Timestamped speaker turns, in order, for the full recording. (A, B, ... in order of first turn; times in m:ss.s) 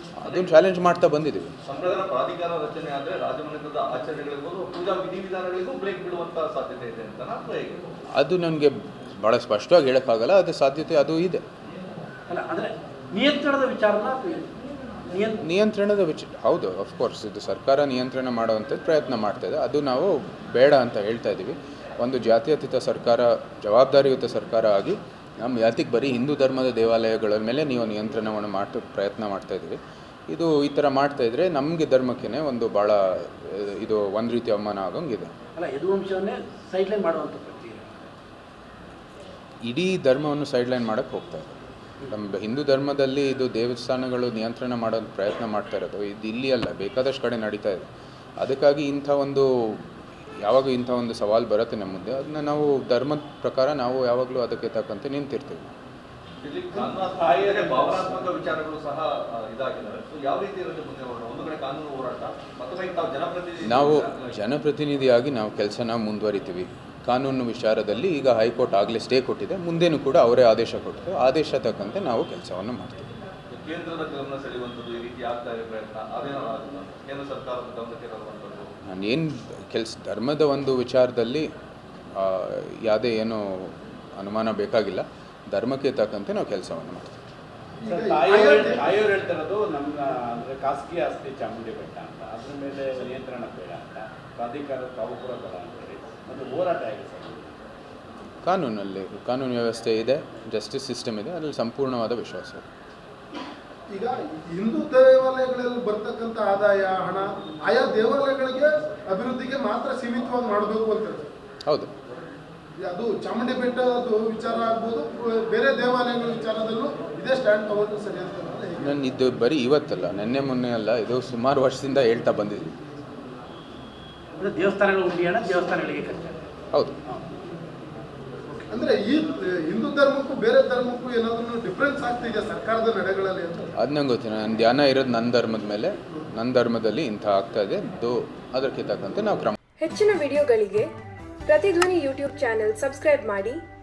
0:00.2-0:01.5 A
0:00.2-0:00.6 B
0:01.6-0:07.9 B
0:08.2-0:11.4 A
0:12.3-0:14.5 C
0:15.1-0:15.4 C
0:15.4-0:29.8 A
0:30.3-0:35.3 A
0:35.6-0:38.0 C
0:39.6-0:47.9 A
0:48.4-0:49.8 A
0:50.4-0:55.7 A
0:56.4-1:04.4 B
0:56.7-0:58.6 D
1:03.6-1:13.1 A
1:13.5-1:18.7 B
1:18.9-1:21.5 A
1:22.2-1:27.1 A
1:27.8-1:28.8 E
1:27.9-1:37.6 D
1:38.4-1:42.6 A
1:43.9-1:51.3 E
1:52.8-1:58.9 E
1:58.8-2:02.7 A
2:04.4-2:06.4 C
2:08.7-2:13.7 E
2:13.8-2:19.6 A
2:19.8-2:20.9 F
2:21.5-2:23.6 F